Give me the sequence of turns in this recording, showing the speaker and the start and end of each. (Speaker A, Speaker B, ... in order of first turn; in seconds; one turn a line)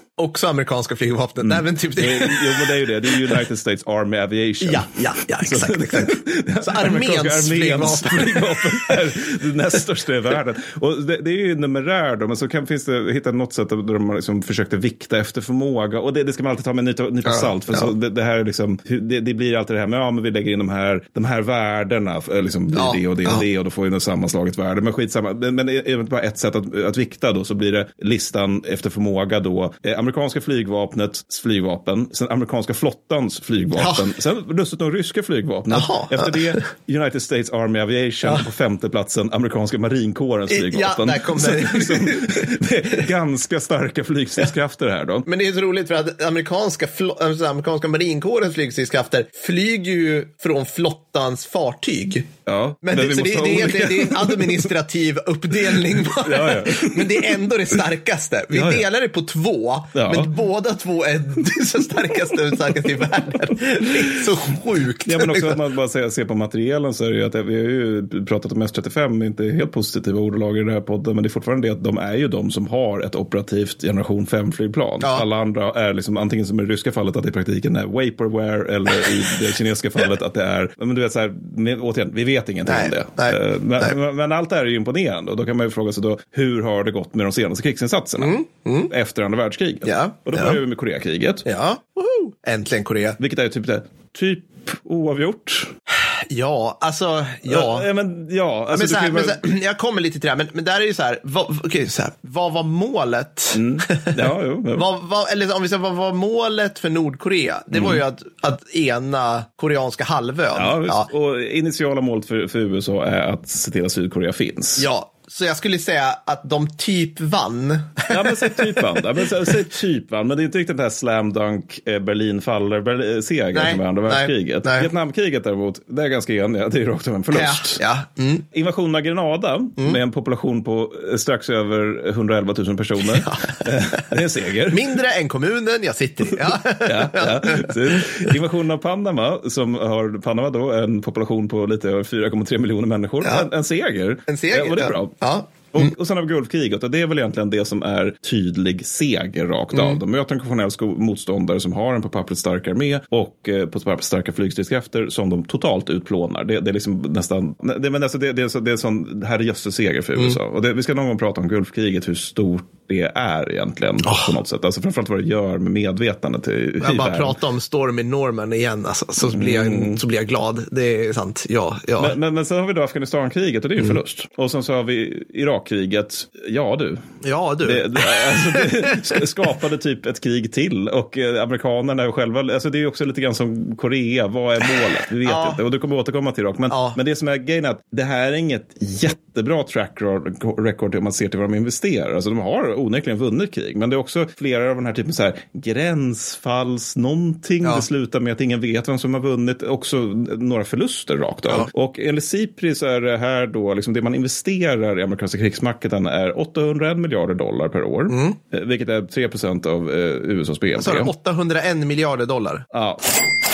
Speaker A: 0.2-2.7
Speaker B: 1.4-45.3
Speaker A: 4.6-8.7
Speaker A: 17.2-17.9
Speaker A: 22.7-23.4
Speaker A: 33.8-34.0
Speaker A: 35.7-36.6
Speaker A: 40.5-42.5
Speaker A: 45.2-52.3
Speaker B: 52.5-54.6
Speaker A: 52.8-65.6
Speaker B: 56.1-57.7
Speaker B: 58.5-58.8
Speaker B: 59.9-60.3
Speaker B: 63.9-64.2
Speaker B: 65.0-91.4
Speaker A: 82.7-83.9
Speaker A: 88.2-88.9
Speaker A: 89.8-90.6
Speaker A: 91.5-93.2
Speaker B: 93.2-95.7
Speaker A: 96.3-97.9
Speaker B: 97.5-99.5
Speaker A: 98.7-111.1
Speaker B: 103.5-104.9
Speaker B: 107.7-108.0
Speaker B: 110.5-114.8
Speaker A: 114.8-119.0
Speaker B: 118.1-127.8
Speaker A: 123.5-124.9
Speaker A: 127.3-128.4
Speaker B: 128.5-134.9
Speaker A: 133.1-134.1
Speaker A: 134.7-138.0
Speaker B: 136.8-167.4
Speaker A: 144.3-145.9
Speaker A: 164.0-164.3
Speaker A: 166.8-172.1
Speaker B: 169.2-170.0
Speaker B: 172.0-177.0
Speaker A: 177.2-179.0
Speaker B: 177.6-211.1
Speaker A: 185.2-185.6
Speaker A: 186.7-187.0
Speaker A: 208.1-208.4
Speaker A: 210.8-212.6
Speaker B: 212.7-213.0